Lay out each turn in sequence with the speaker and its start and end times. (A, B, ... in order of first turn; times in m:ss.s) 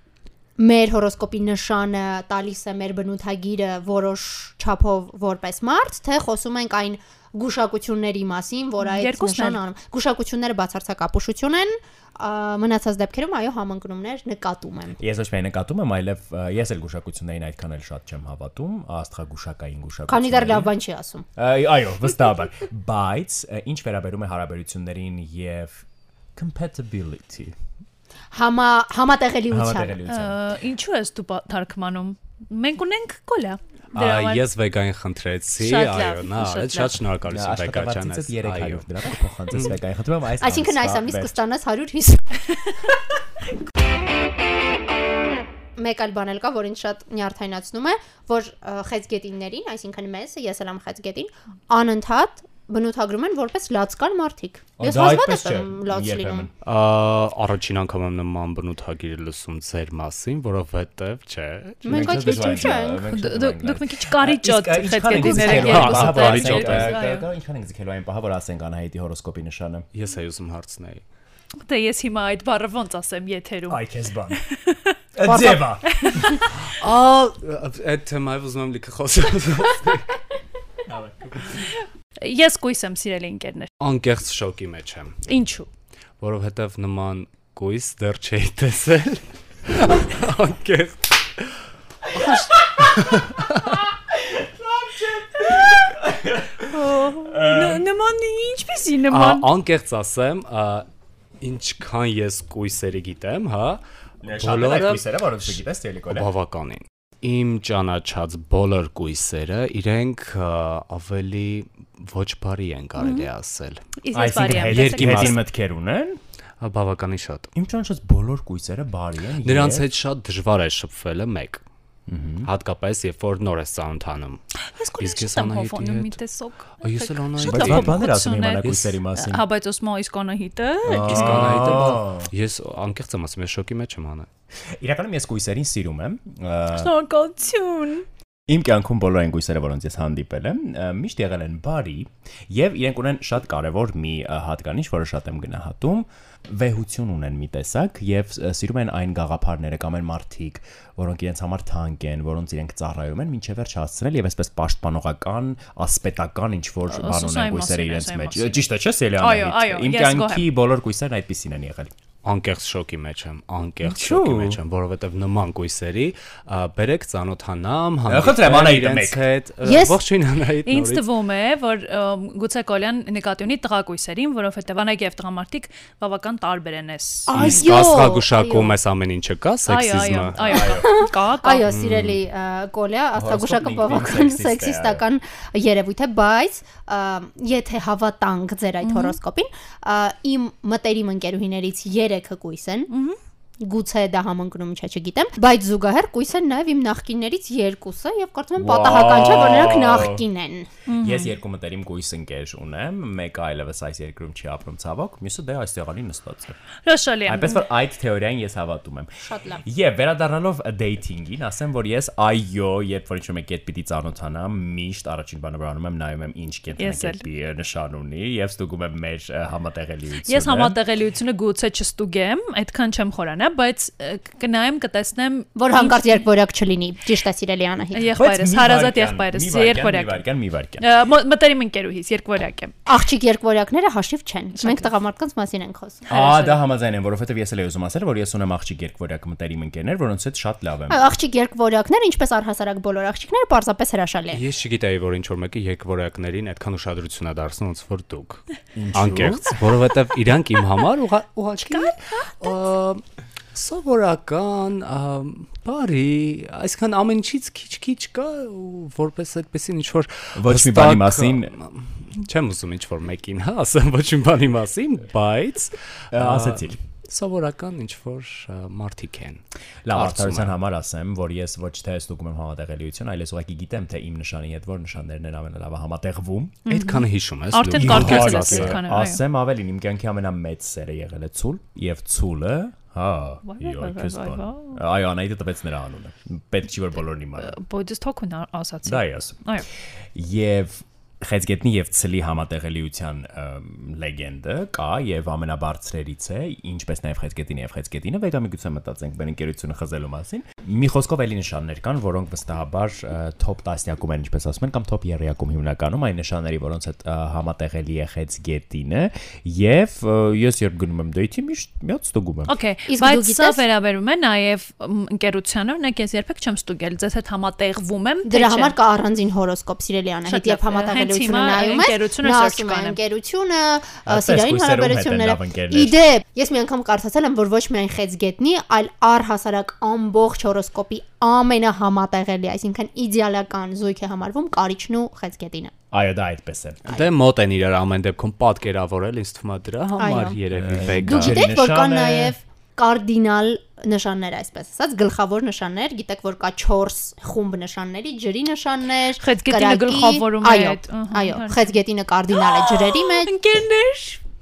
0:00.6-0:15.0 A
0:08.8-0:09.6 B
0:15.0-0:20.7 C
0:20.1-0:21.2 A
0:21.4-0:25.8 C
0:26.4-0:27.5 C
0:28.3-0:30.0 A
0:29.5-0:30.4 C
0:30.1-0:34.4 B
0:33.9-0:38.9 D
0:35.6-0:37.0 B
0:37.3-0:41.4 C
0:40.4-0:42.6 A
0:45.8-0:56.5 A
0:54.8-0:56.5 C
0:56.6-1:02.4 D
1:01.8-1:03.0 A
1:01.8-1:09.8 C
1:03.1-1:07.3 B
1:05.2-1:07.0 D
1:09.9-1:11.0 D
1:11.6-1:13.8 B
1:13.7-1:14.4 C
1:14.3-1:14.9 B
1:15.1-1:16.4 C
1:15.2-1:15.7 A
1:16.0-1:16.4 B
1:16.6-1:20.2 D
1:20.8-1:21.7 C
1:22.2-1:23.7 B
1:23.8-1:25.2 D
1:25.2-1:25.7 B
1:26.2-1:31.5 D
1:32.1-1:33.8 D
1:32.2-1:33.1 C
1:34.1-1:37.8 C
1:36.7-1:39.5 B
1:39.1-1:40.9 D
1:41.4-1:43.8 D
1:44.2-1:46.3 C
1:44.4-1:45.0 D
1:46.1-1:53.8 D
1:53.0-1:53.3 B
1:54.0-1:55.4 B
1:54.1-1:56.2 C
1:54.6-1:55.4 D
1:56.6-1:57.5 D
1:57.5-1:59.8 C
1:59.4-2:01.6 D
2:02.1-2:02.5 C
2:02.4-2:04.4 D
2:04.7-2:11.6 B
2:05.0-2:06.2 D
2:06.8-2:08.0 D
2:07.4-2:09.4 C
2:08.6-2:08.9 D
2:10.8-2:12.3 C
2:11.0-2:14.3 D
2:14.8-2:16.9 C
2:16.7-2:18.0 B
2:18.5-2:41.9 C
2:36.9-2:38.6 B
2:39.2-2:40.5 B
2:42.2-2:51.0 D
2:43.8-2:44.6 C
2:48.1-2:49.2 C
2:49.6-2:50.0 A
2:50.6-2:57.9 B
2:57.3-2:58.8 A
2:57.3-3:00.3 D
2:59.7-3:01.6 B
3:00.4-3:00.9 C
3:00.5-3:12.9 A
3:01.7-3:02.2 D
3:03.1-3:05.0 C
3:08.8-3:09.2 B
3:12.9-3:13.2 B
3:13.6-3:20.7 A
3:18.6-3:20.2 C
3:20.8-3:21.3 B
3:21.0-3:26.6 C
3:26.8-3:27.6 B
3:27.2-3:40.8 C
3:29.2-3:29.6 A
3:36.8-3:37.2 B
3:40.3-3:46.2 B
3:45.5-3:48.1 A
3:47.9-3:50.2 B
3:48.2-3:50.8 C
3:50.8-3:52.7 B
3:52.8-3:56.1 A
3:54.6-3:54.9 B
3:56.1-3:56.6 B
3:56.1-4:01.0 C
4:00.9-4:04.4 A
4:04.3-4:13.0 D
4:08.7-4:09.5 C
4:11.6-4:12.0 B
4:13.5-4:30.5 D
4:20.4-4:21.5 C
4:26.1-4:26.8 C
4:29.8-4:36.6 C
4:36.6-4:39.2 B
4:36.7-4:38.8 D
4:37.8-4:47.5 C
4:43.4-4:44.8 B
4:47.4-4:49.7 B
4:48.8-4:49.4 C
4:50.1-5:12.5 C
5:12.4-5:18.8 B
5:12.8-5:13.6 A
5:18.2-5:35.7 A
5:20.2-5:23.0 B
5:24.0-5:26.0 C
5:35.9-5:36.8 C
5:36.9-5:41.4 D
5:40.0-5:40.4 A
5:40.5-5:42.3 C
5:40.9-5:53.3 A
5:49.2-5:51.8 B
5:52.4-5:54.2 B